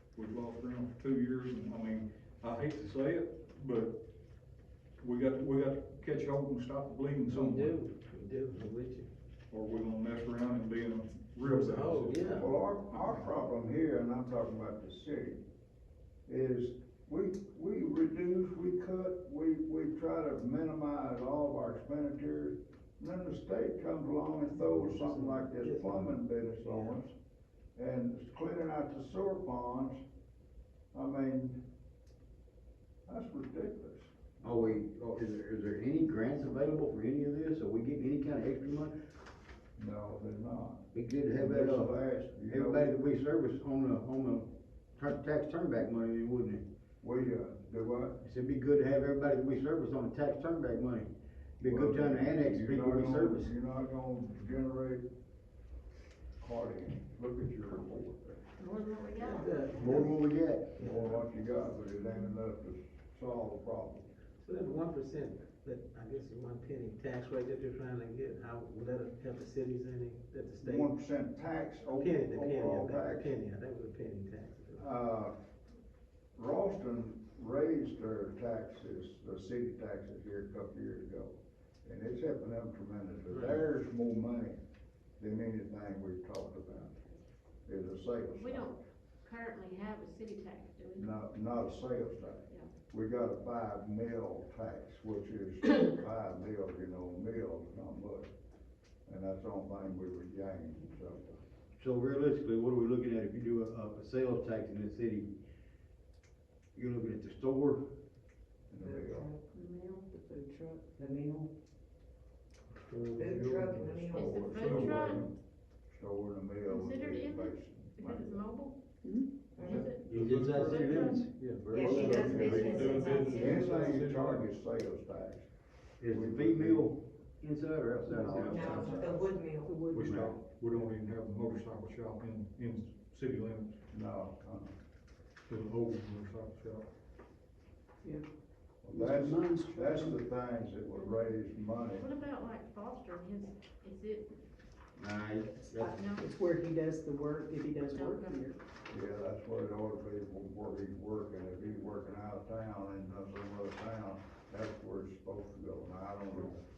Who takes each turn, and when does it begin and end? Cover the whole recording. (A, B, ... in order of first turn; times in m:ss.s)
0:00.2-0:04.0 A
0:05.0-0:07.8 A
0:07.3-0:09.1 B
0:09.5-0:12.5 A
0:11.4-0:12.5 B
0:12.4-0:15.4 C
0:16.3-0:27.1 C
0:24.5-0:27.0 B
0:27.8-0:30.0 C
0:30.9-0:31.6 C
0:33.1-0:34.1 C
0:34.4-0:38.9 D
0:39.8-0:42.9 C
0:40.9-0:41.9 D
0:42.4-0:46.6 D
0:47.0-0:48.2 C
0:48.2-0:53.5 D
0:51.6-0:55.1 C
0:56.4-0:58.4 C
0:58.6-1:00.0 E
0:59.2-1:00.1 B
0:59.8-1:00.7 D
1:00.8-1:01.2 B
1:00.8-1:04.1 C
1:04.4-1:10.9 B
1:10.6-1:13.3 C
1:12.0-1:14.9 B
1:14.8-1:15.3 C
1:16.4-1:24.6 C
1:23.3-1:23.6 B
1:25.2-1:27.0 C
1:27.7-1:28.7 C
1:28.3-1:31.1 E
1:31.0-1:38.3 C
1:32.5-1:32.7 E
1:39.1-1:41.4 C
1:41.8-1:45.3 D
1:46.8-1:47.8 D
1:48.7-1:49.3 C
1:48.8-1:51.5 F
1:52.8-1:55.3 A
1:53.2-1:54.5 F
1:54.1-1:55.2 C
1:54.1-1:55.3 E
1:55.9-1:58.4 C
1:56.6-1:58.8 E
1:59.6-2:00.0 F
1:59.6-2:00.8 A
1:59.6-2:03.6 E
2:00.1-2:02.7 D
2:01.2-2:01.7 B
2:01.8-2:03.0 F
2:02.0-2:05.5 C
2:02.0-2:04.5 A
2:03.6-2:04.0 F
2:06.0-2:09.0 D
2:06.1-2:06.9 C
2:08.0-2:09.2 C
2:08.4-2:09.7 F
2:09.6-2:10.3 G
2:09.6-2:13.8 A
2:10.0-2:10.3 D
2:13.9-2:14.7 C
2:15.5-2:16.9 A
2:18.8-2:22.1 C
2:18.9-2:20.2 D
2:20.9-2:21.4 E
2:21.9-2:24.3 E
2:25.0-2:26.0 D
2:25.8-2:28.6 G
2:25.9-2:26.3 E
2:27.8-2:28.3 E
2:28.9-2:36.6 C